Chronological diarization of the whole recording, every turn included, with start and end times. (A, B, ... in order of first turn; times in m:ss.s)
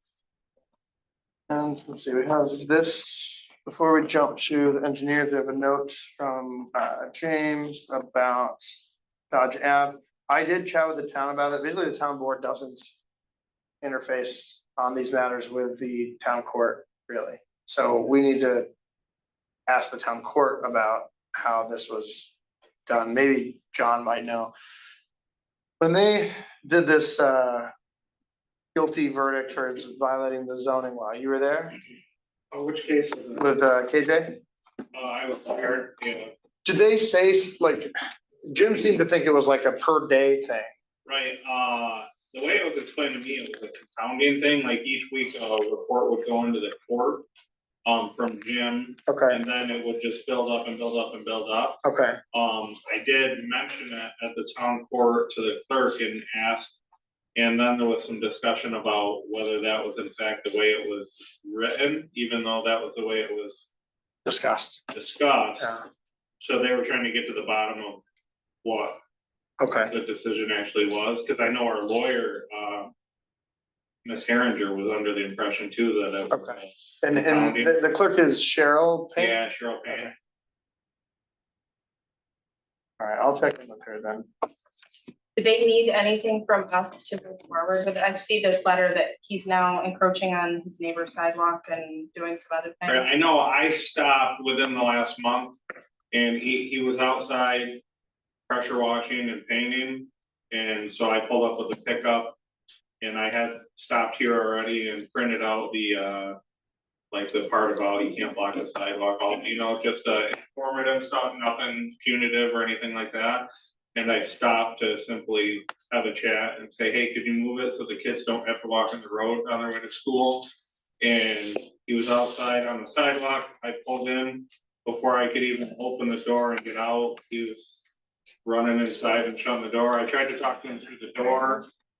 0:01.5-0:08.8 A
0:09.3-0:12.9 A
0:13.8-0:18.7 A
0:19.7-0:22.4 A
0:22.9-0:24.5 A
0:25.8-0:27.7 A
0:28.7-0:31.8 A
0:32.5-0:33.4 B
0:33.3-0:34.4 A
0:34.9-0:36.3 B
0:36.6-0:37.9 A
0:38.5-0:40.7 A
0:41.0-0:47.2 B
0:47.8-0:51.8 B
0:49.1-0:49.4 A
0:51.8-0:52.2 A
0:52.3-0:56.8 B
0:57.3-1:03.7 B
1:04.2-1:04.8 A
1:04.9-1:05.7 B
1:05.6-1:05.8 A
1:06.4-1:08.0 B
1:08.6-1:09.0 B
1:09.6-1:09.9 A
1:09.9-1:12.9 B
1:14.0-1:17.7 B
1:16.3-1:20.1 A
1:19.2-1:20.1 B
1:23.0-1:24.3 A
1:25.4-1:33.1 C
1:32.8-1:35.6 B
1:36.1-1:37.8 B
1:38.5-1:42.4 B
1:43.0-1:46.4 B
1:47.1-2:07.9 B
2:08.4-2:11.7 B